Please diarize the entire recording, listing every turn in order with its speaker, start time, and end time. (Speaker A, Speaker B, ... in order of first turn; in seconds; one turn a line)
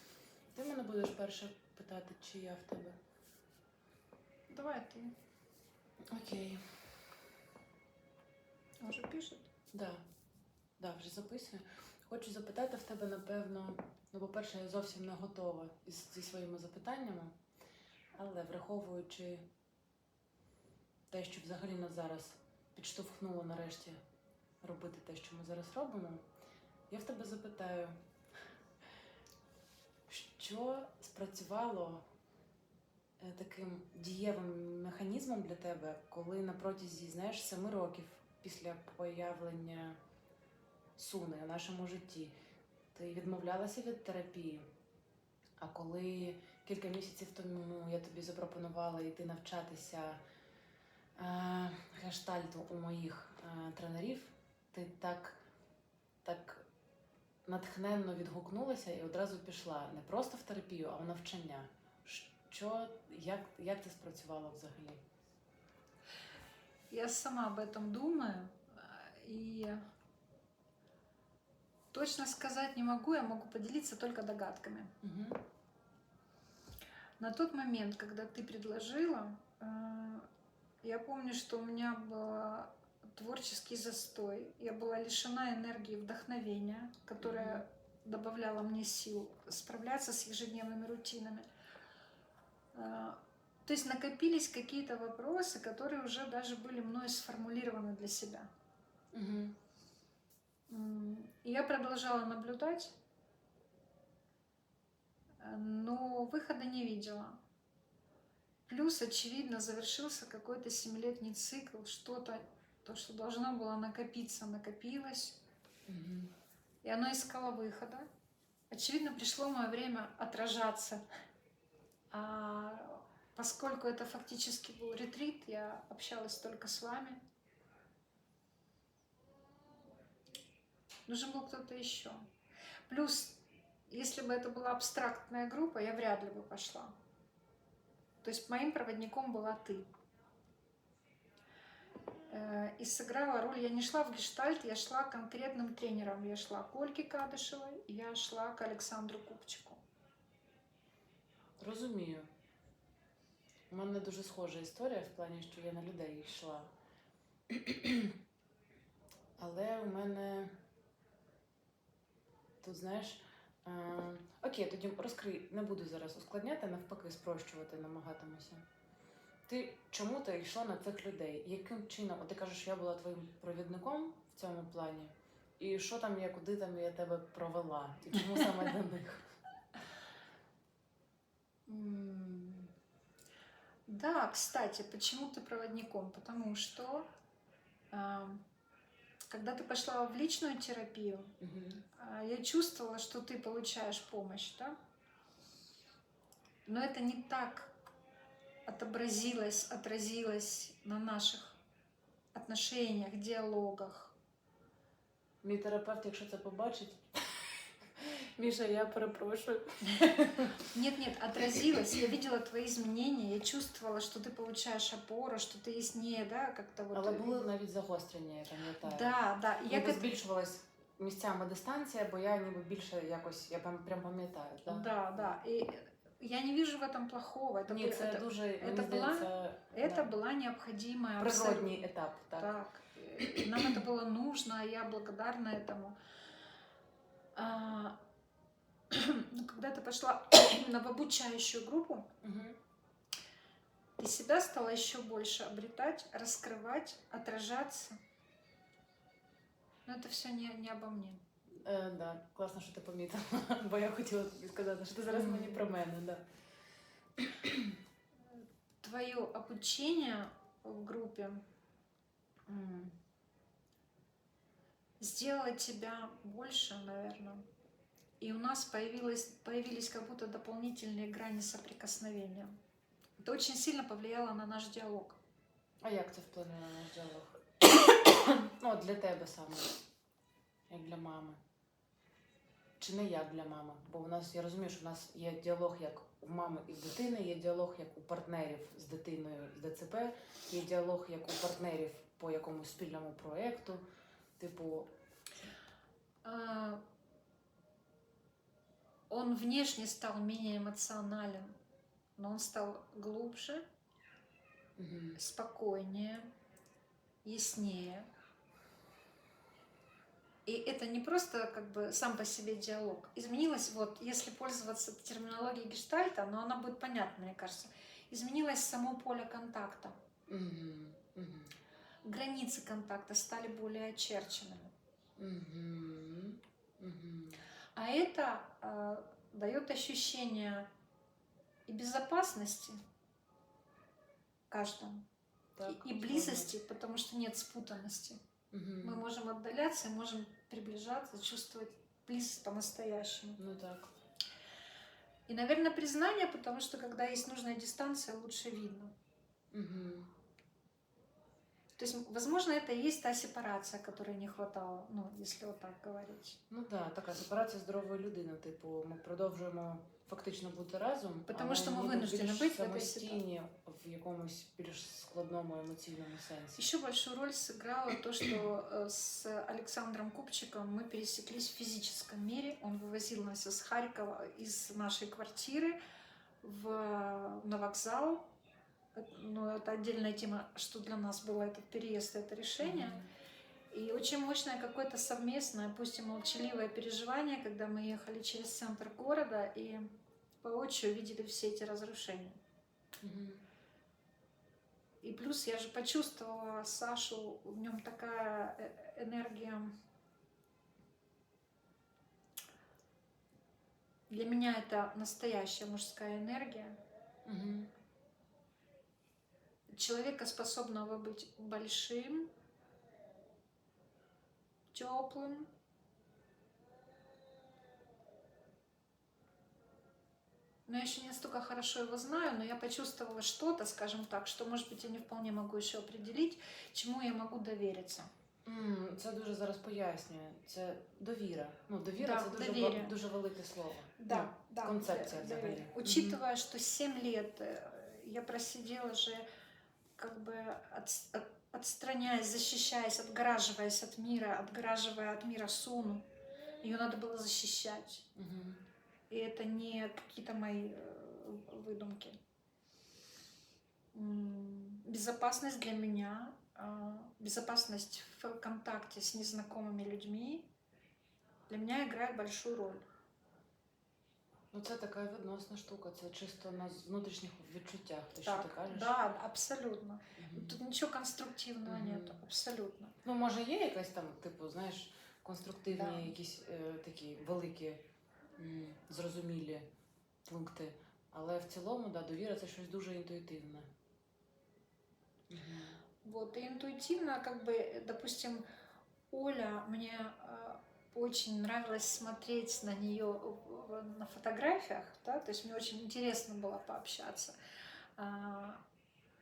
Speaker A: 0.5-3.0
Speaker B: 4.5-5.1
Speaker A: 6.1-6.8
Speaker B: 8.8-9.5
Speaker A: 9.7-10.0
Speaker A: 10.8-17.4
Speaker A: 18.2-19.5
Speaker A: 21.1-24.0
Speaker A: 24.6-26.2
Speaker A: 26.9-28.0
Speaker A: 30.1-32.0
Speaker A: 33.2-40.0
Speaker A: 41.0-42.3
Speaker A: 42.9-44.7
Speaker A: 45.6-50.2
Speaker A: 51.2-55.4
Speaker A: 56.2-56.7
Speaker A: 57.5-65.0
Speaker B: 66.9-69.8
Speaker B: 71.9-74.9
Speaker A: 75.0-75.4
Speaker B: 77.2-80.3
Speaker B: 80.8-91.5
Speaker A: 87.2-87.6
Speaker B: 92.7-98.5
Speaker A: 99.1-99.6
Speaker B: 100.7-102.9
Speaker B: 105.4-107.4
Speaker B: 108.7-115.4
Speaker A: 115.9-116.3
Speaker B: 116.8-118.1
Speaker B: 118.7-121.0
Speaker B: 122.1-127.2
Speaker B: 131.1-132.3
Speaker B: 132.9-136.9
Speaker B: 138.2-139.9
Speaker B: 142.3-149.8
Speaker A: 151.6-152.3
Speaker A: 153.7-156.7
Speaker A: 157.5-158.1
Speaker A: 159.4-160.6
Speaker A: 162.6-168.6
Speaker A: 169.5-179.2
Speaker B: 181.7-182.7
Speaker B: 183.9-187.1
Speaker B: 187.9-188.4
Speaker B: 189.3-191.3
Speaker A: 191.4-191.8
Speaker B: 191.9-194.7
Speaker B: 196.7-197.7
Speaker B: 198.7-201.6
Speaker B: 202.3-204.1
Speaker A: 205.4-207.4
Speaker A: 208.0-210.6
Speaker B: 209.9-217.4
Speaker A: 216.9-219.2
Speaker B: 218.8-220.1
Speaker A: 219.7-225.3
Speaker B: 224.7-231.8
Speaker A: 227.7-230.1
Speaker A: 231.2-232.5
Speaker B: 232.4-236.0
Speaker A: 233.2-233.8
Speaker B: 237.3-238.0
Speaker B: 238.9-242.1
Speaker A: 242.2-242.6
Speaker B: 244.0-248.0
Speaker B: 249.8-251.2
Speaker A: 251.6-256.2
Speaker B: 255.1-255.6
Speaker A: 257.2-257.7
Speaker B: 258.3-261.4
Speaker B: 262.5-262.9
Speaker B: 265.0-267.4
Speaker B: 268.2-272.6
Speaker B: 273.2-275.2
Speaker A: 275.8-277.4
Speaker A: 278.2-279.7
Speaker A: 280.7-281.4
Speaker A: 282.8-293.8
Speaker A: 294.4-294.9
Speaker B: 296.2-296.8
Speaker B: 299.1-301.6
Speaker B: 302.2-303.6
Speaker A: 304.8-305.2
Speaker B: 305.2-306.3
Speaker B: 307.2-308.1
Speaker B: 310.5-320.0
Speaker A: 320.3-321.5
Speaker B: 322.1-324.7
Speaker A: 325.2-327.4
Speaker B: 327.8-330.7
Speaker B: 331.7-332.8
Speaker B: 334.5-335.1
Speaker A: 335.6-336.5
Speaker B: 335.7-338.2
Speaker A: 338.5-339.0
Speaker B: 338.8-343.4
Speaker A: 343.4-343.9
Speaker B: 345.3-348.9
Speaker A: 349.5-350.1
Speaker B: 351.8-356.4
Speaker A: 356.5-366.6
Speaker B: 361.3-363.2
Speaker B: 366.6-375.8
Speaker B: 376.4-378.3
Speaker B: 378.9-383.0
Speaker A: 382.6-383.0
Speaker B: 383.7-389.9
Speaker B: 390.4-392.4
Speaker A: 393.0-393.4
Speaker B: 395.0-399.7
Speaker B: 404.1-406.8
Speaker A: 407.2-407.7
Speaker B: 409.7-412.3
Speaker B: 414.7-415.5
Speaker B: 420.7-428.1
Speaker A: 428.5-436.2
Speaker B: 432.0-432.9
Speaker B: 434.0-439.2
Speaker B: 440.0-446.1
Speaker B: 446.6-448.1
Speaker A: 448.1-448.6
Speaker B: 449.1-452.2
Speaker B: 453.9-460.5
Speaker B: 461.5-462.8
Speaker A: 464.5-468.9
Speaker B: 468.2-472.9
Speaker A: 470.2-470.6
Speaker A: 471.7-472.2
Speaker A: 473.0-477.8
Speaker B: 475.7-476.1
Speaker A: 478.4-479.7
Speaker A: 480.2-483.7
Speaker A: 485.3-485.8
Speaker B: 486.0-488.4
Speaker B: 489.1-497.4
Speaker B: 498.0-498.6